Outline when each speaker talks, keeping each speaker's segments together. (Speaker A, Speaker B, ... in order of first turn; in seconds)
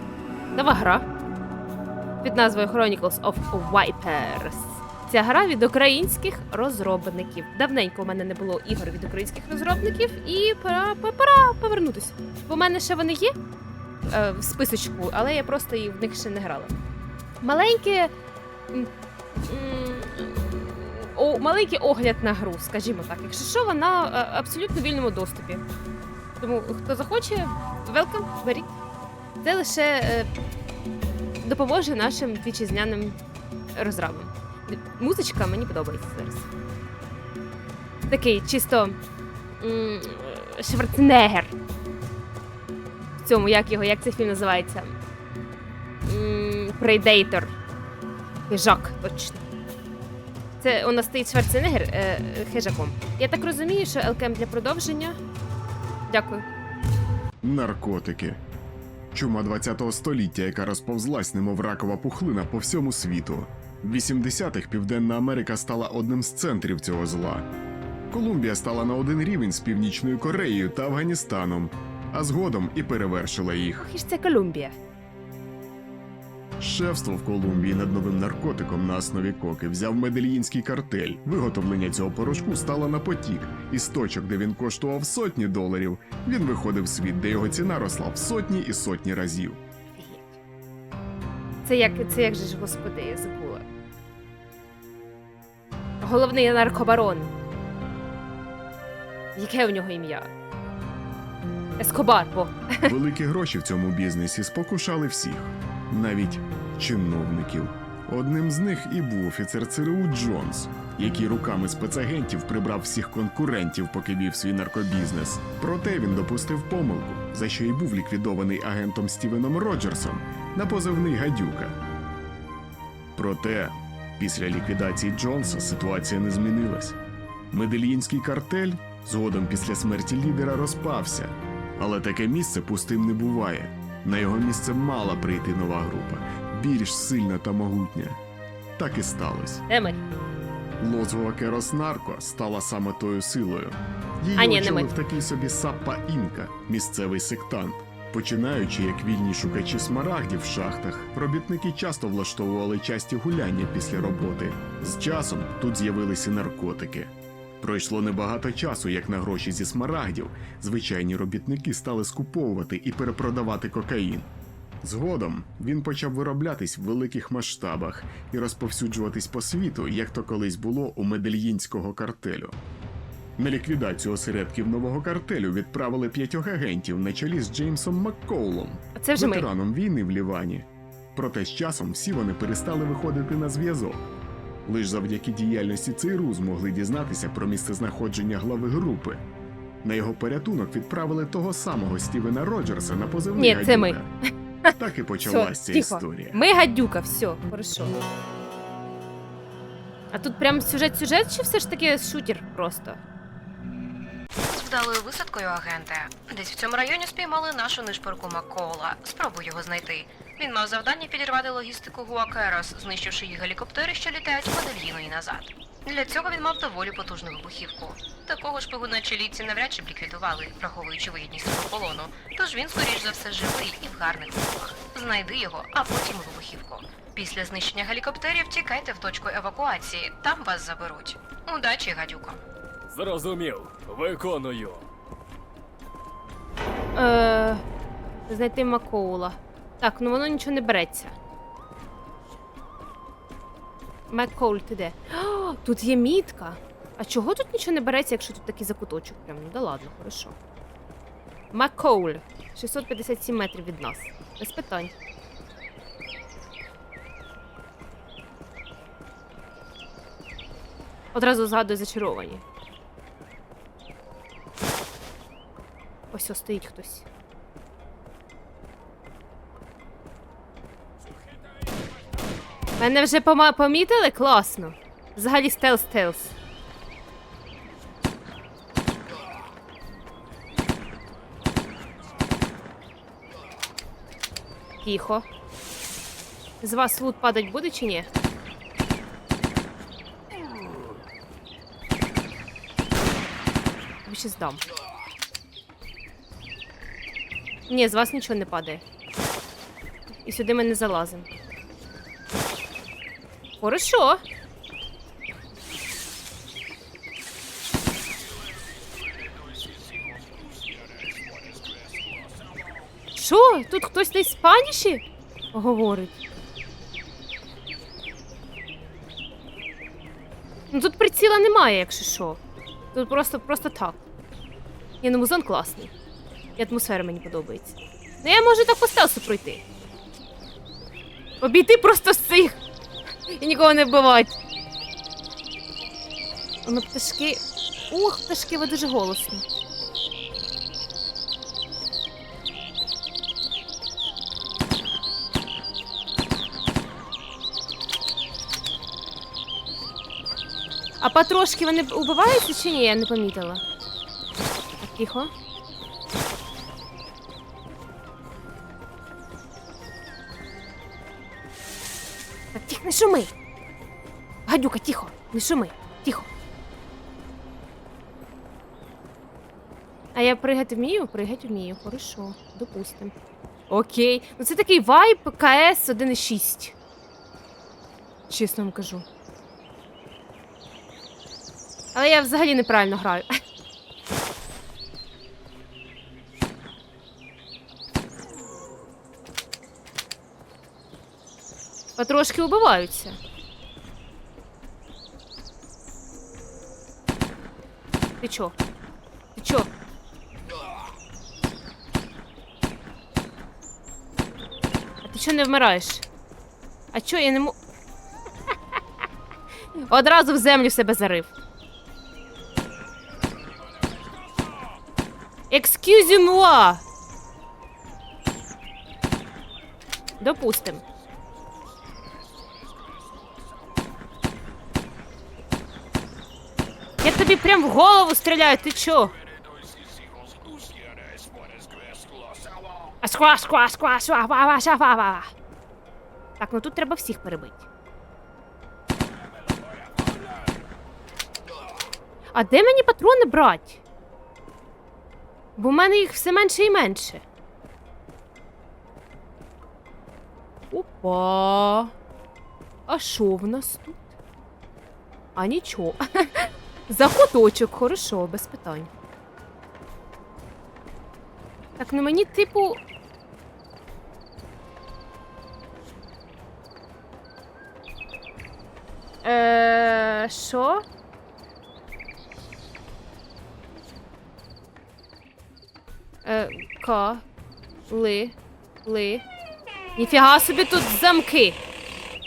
Speaker A: 0.5-1.1, 2.2-13.3, 14.1-16.8, 17.4-18.1, 18.7-25.6, 26.4-28.7, 29.4-30.3, 31.4-33.2, 33.7-36.5, 38.1-39.0, 39.6-41.5, 43.2-45.0, 46.0-47.5, 48.5-49.4, 50.6-55.2, 56.1-56.4, 73.8-74.8, 89.9-90.4, 91.6-93.6, 96.0-97.3, 99.3-100.3, 101.8-102.9, 139.7-140.0, 144.4-144.9, 178.9-179.5, 193.4-194.0, 194.7-197.9, 200.1-203.0, 236.9-237.6, 238.3-241.1, 244.1-250.3, 251.5-254.9, 261.1-262.4, 266.1-267.1, 272.8-276.3, 284.8-285.2, 286.6-288.1, 294.0-294.6, 297.7-298.8, 300.2-301.3, 303.6-304.2, 313.1-316.1, 320.7-322.4, 322.9-324.0, 325.0-325.9, 326.6-329.6, 331.4-332.6, 333.3-334.4, 336.6-339.4, 351.0-353.6, 354.8-355.3, 362.5-363.3, 364.5-366.3, 370.1-373.1, 373.7-376.7, 378.3-379.1, 381.9-383.3, 392.0-393.2, 398.2-398.6, 399.4-399.7, 405.0-406.0, 406.9-407.6, 409.9-411.3, 415.5-416.8, 420.2-420.8, 427.0-429.1, 433.0-435.3, 436.4-437.7, 442.3-443.8, 445.6-447.2, 450.7-451.9, 452.9-454.1, 455.4-458.9, 461.8-462.8, 469.2-470.8, 476.2-477.2, 477.9-479.2, 480.0-481.6
Speaker B: 57.4-58.4, 59.1-67.5, 68.1-73.9, 76.6-89.6, 102.8-121.8, 123.1-127.0, 127.5-138.2, 138.8-139.6, 140.8-164.3, 164.8-172.6, 173.4-184.1, 184.7-189.2, 189.8-194.1, 194.8-196.4
Speaker C: 204.4-232.4
Speaker D: 232.9-234.8